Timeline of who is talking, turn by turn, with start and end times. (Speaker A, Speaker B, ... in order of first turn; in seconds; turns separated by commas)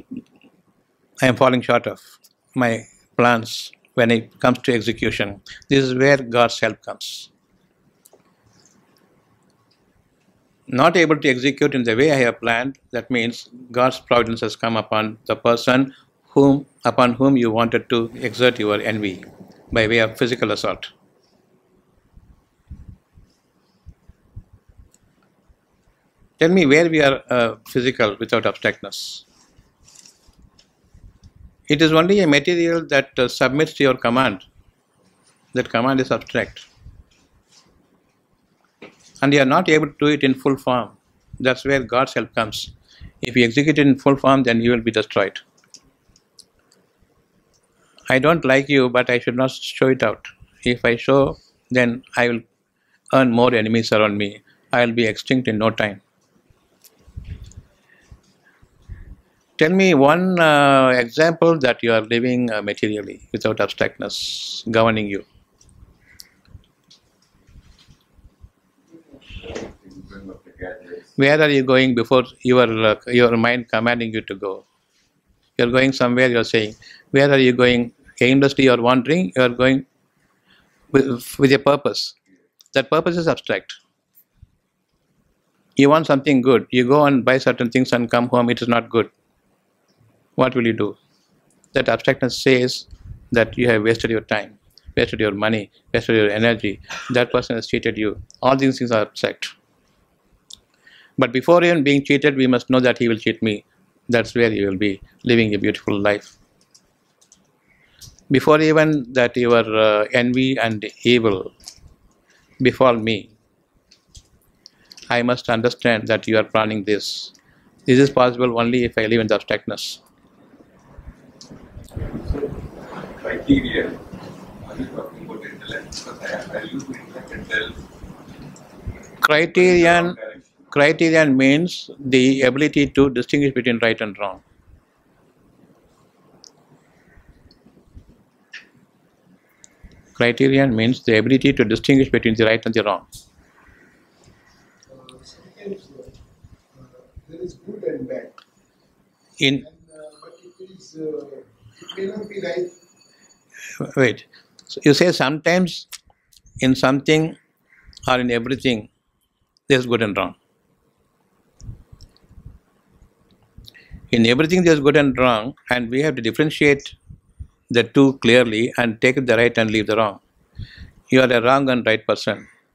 Speaker A: 1.2-2.0, Speaker A: 2.5-7.3, Speaker A: 10.7-20.9, Speaker A: 26.4-29.2, Speaker A: 31.7-34.4, Speaker A: 35.5-36.6, Speaker A: 39.2-45.4, Speaker A: 48.1-52.4, Speaker A: 53.1-56.0, Speaker A: 59.6-65.2, Speaker B: 69.3-71.2, Speaker A: 71.2-74.6, Speaker A: 75.6-79.8, Speaker A: 80.9-82.1, Speaker A: 82.7-83.8, Speaker A: 85.8-89.1, Speaker A: 90.4-91.0, Speaker A: 91.7-99.5, Speaker A: 101.2-106.3, Speaker A: 108.3-111.5, Speaker A: 112.6-113.3, Speaker A: 115.1-117.3, Speaker A: 117.8-120.0, Speaker B: 122.0-124.0, Speaker B: 124.6-127.8, Speaker A: 129.2-130.2, Speaker B: 129.4-130.4, Speaker A: 130.7-134.4, Speaker A: 140.2-143.0, Speaker C: 144.9-146.2, Speaker C: 146.7-148.4, Speaker A: 149.4-149.6, Speaker C: 149.6-152.8, Speaker A: 153.8-155.9, Speaker A: 156.6-157.3, Speaker A: 158.1-158.9, Speaker A: 159.7-160.4, Speaker A: 164.1-166.9, Speaker A: 167.7-170.2, Speaker A: 171.1-172.5